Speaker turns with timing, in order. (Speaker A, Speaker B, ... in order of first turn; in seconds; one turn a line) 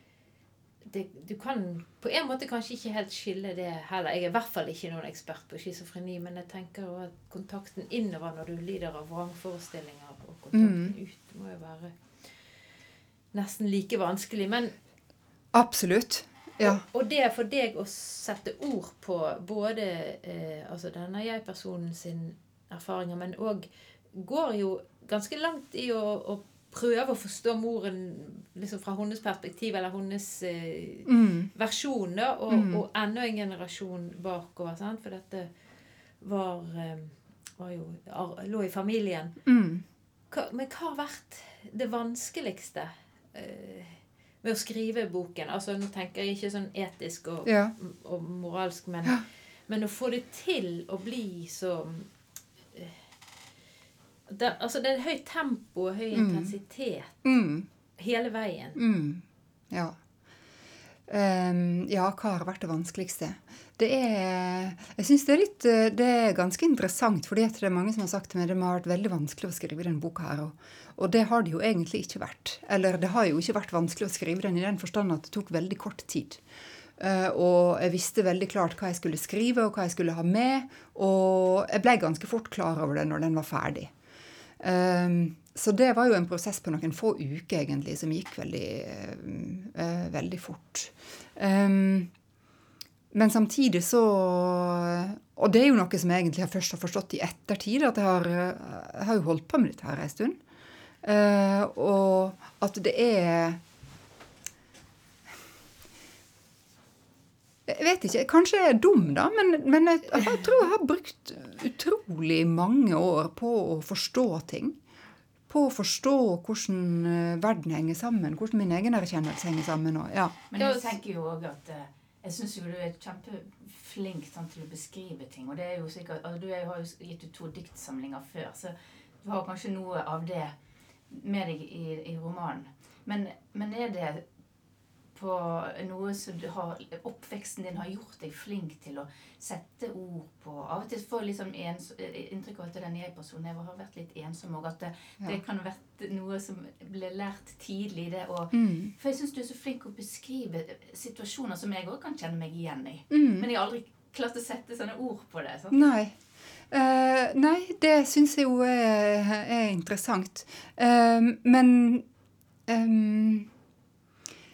Speaker A: 0.8-12.3
Speaker B: 10.5-11.0
Speaker A: 13.3-14.7
Speaker B: 15.5-16.8
Speaker A: 16.6-35.5
Speaker B: 31.1-31.5
Speaker B: 32.5-32.8
Speaker A: 36.2-39.4
Speaker B: 39.5-39.9
Speaker A: 40.3-52.1
Speaker B: 47.5-47.7
Speaker A: 52.7-53.1
Speaker A: 54.3-57.2
Speaker B: 56.1-56.5
Speaker B: 57.2-57.7
Speaker A: 58.0-58.8
Speaker B: 58.8-60.0
Speaker B: 61.1-76.4
Speaker B: 77.0-83.9
Speaker B: 84.6-92.1
Speaker B: 93.1-100.4
Speaker B: 101.0-103.6
Speaker B: 107.7-114.8
Speaker B: 115.5-120.3
Speaker C: 120.5-130.5
Speaker A: 120.6-121.0
Speaker C: 131.1-134.3
Speaker C: 135.1-155.8
Speaker B: 148.5-148.9
Speaker B: 153.1-153.5
Speaker B: 155.7-156.2
Speaker B: 156.7-162.1
Speaker B: 162.7-163.5